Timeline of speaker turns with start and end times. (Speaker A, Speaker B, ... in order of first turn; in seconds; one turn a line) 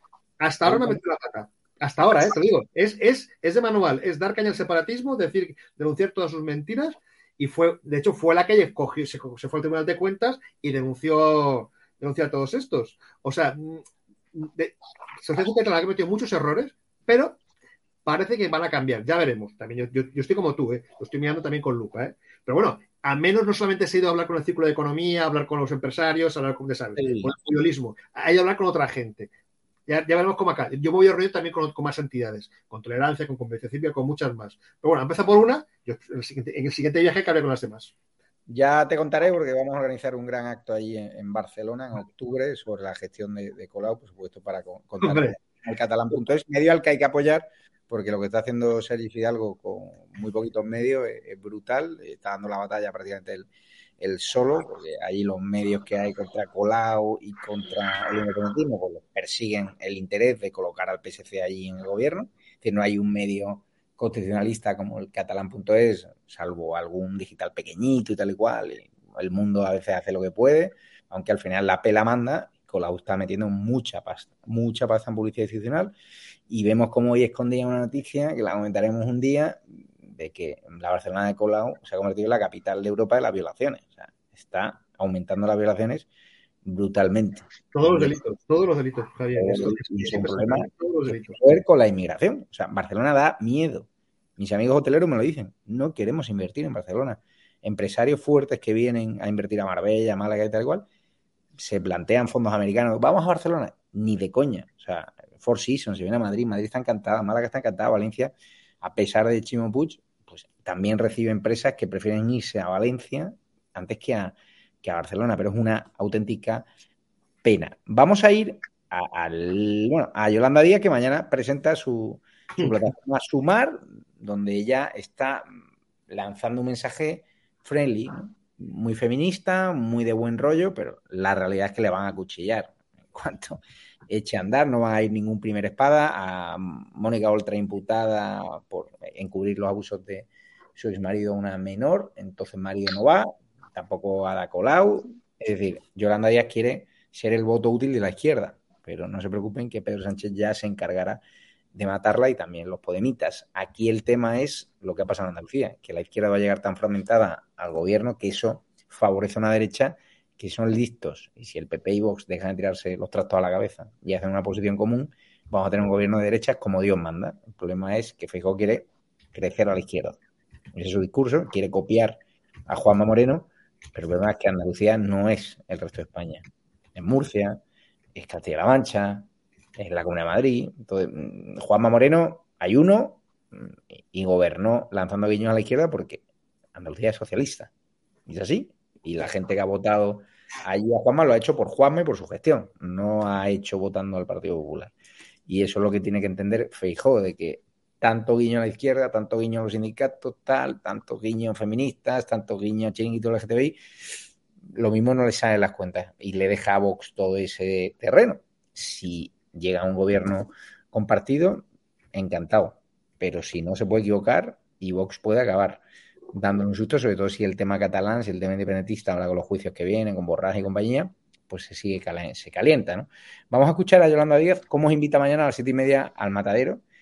Speaker A: 0.4-17.4
Speaker B: 0.6-1.0
Speaker A: 18.0-29.3
Speaker B: 27.0-27.4
Speaker A: 29.9-37.9
Speaker B: 38.5-53.5
Speaker A: 45.0-45.4
Speaker B: 54.0-75.9
Speaker B: 76.5-86.1
Speaker B: 86.6-88.2
Speaker A: 87.7-91.4
Speaker B: 89.3-100.8
Speaker B: 101.5-116.7
Speaker B: 117.4-125.5
Speaker B: 126.1-151.2
Speaker B: 151.7-170.2
Speaker B: 170.7-176.4
Speaker B: 176.9-177.6
Speaker B: 178.1-186.2
Speaker B: 186.7-187.7
Speaker B: 188.3-194.9
Speaker B: 195.5-203.8
Speaker B: 204.7-215.8
Speaker B: 216.3-226.8